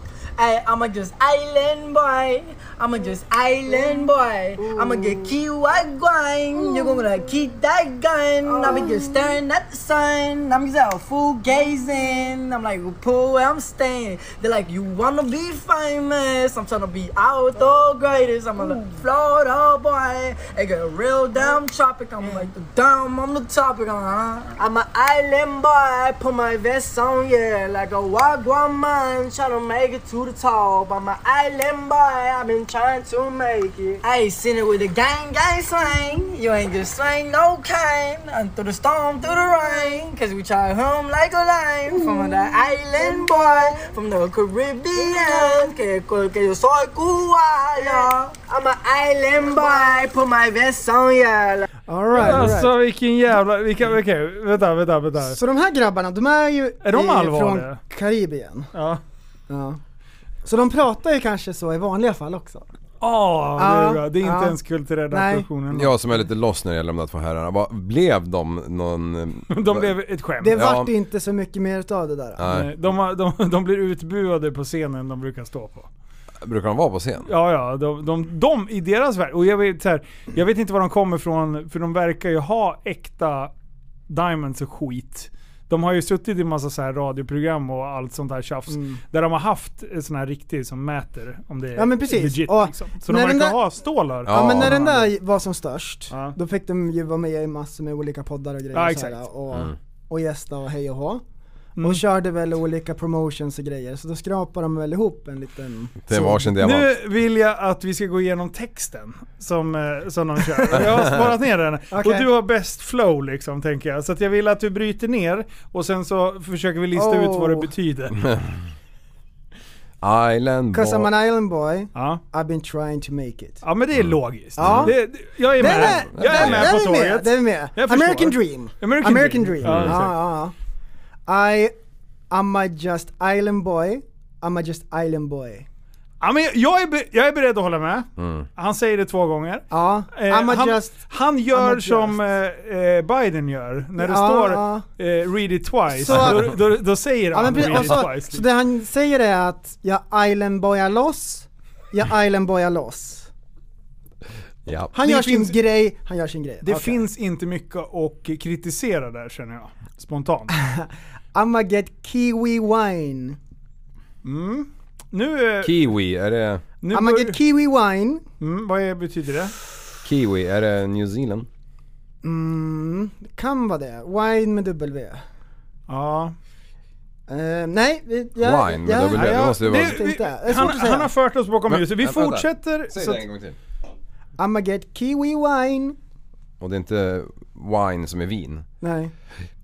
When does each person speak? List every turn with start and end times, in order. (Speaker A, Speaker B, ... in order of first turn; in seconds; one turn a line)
Speaker A: 0.4-51.7
Speaker B: 3.7-4.0
Speaker B: 4.6-5.3
Speaker B: 6.5-7.0
Speaker B: 8.4-9.4
Speaker B: 41.9-42.5
Speaker B: 43.1-43.5
Speaker B: 51.9-52.8
Speaker C: 52.1-55.4
Speaker B: 55.2-58.7
Speaker C: 56.8-57.8
Speaker C: 58.7-59.0
Speaker B: 59.5-59.8
Speaker B: 60.4-62.6
Speaker C: 63.0-66.2
Speaker B: 63.6-65.5
Speaker D: 65.7-69.9
Speaker C: 69.5-70.6
Speaker B: 70.4-72.6
Speaker D: 70.5-70.9
Speaker D: 72.4-72.7
Speaker C: 72.4-75.9
Speaker D: 76.4-77.3
Speaker C: 77.2-83.5
Speaker C: 84.1-95.1
Speaker B: 88.7-89.0
Speaker B: 91.8-93.6
Speaker D: 94.2-94.8
Speaker B: 94.3-101.2
Speaker C: 96.1-96.4
Speaker C: 98.7-99.2
Speaker D: 99.5-99.8
Speaker C: 101.8-102.0
Speaker B: 101.8-106.5
Speaker D: 106.1-106.9
Speaker C: 106.6-118.2
Speaker D: 110.8-111.2
Speaker B: 111.9-112.3
Speaker B: 116.9-117.7
Speaker D: 118.2-118.6
Speaker D: 120.0-121.1
Speaker B: 120.7-123.6
Speaker C: 121.9-122.2
Speaker C: 123.6-130.2
Speaker D: 124.0-124.9
Speaker B: 124.6-130.5
Speaker D: 125.6-126.8
Speaker D: 129.6-129.9
Speaker B: 131.3-131.7
Speaker B: 132.3-135.7
Speaker C: 136.2-148.5
Speaker D: 138.2-138.5
Speaker B: 139.7-141.0
Speaker B: 141.5-142.2
Speaker B: 144.0-144.9
Speaker B: 145.9-146.7
Speaker D: 146.1-146.4
Speaker B: 147.3-153.3
Speaker D: 147.5-147.9
Speaker D: 154.7-154.9
Speaker B: 154.9-157.0
Speaker C: 155.0-155.6
Speaker C: 156.6-160.5
Speaker B: 160.6-163.4
Speaker C: 164.2-165.9
Speaker D: 165.6-166.6
Speaker C: 166.8-167.4
Speaker B: 166.9-168.2
Speaker C: 168.4-169.5
Speaker D: 170.0-171.5
Speaker B: 172.2-175.2
Speaker C: 175.9-176.3
Speaker B: 177.3-181.1
Speaker D: 178.4-180.1
Speaker C: 179.1-183.3
Speaker D: 181.7-183.6
Speaker B: 184.4-186.0
Speaker D: 186.6-188.7
Speaker B: 188.8-189.1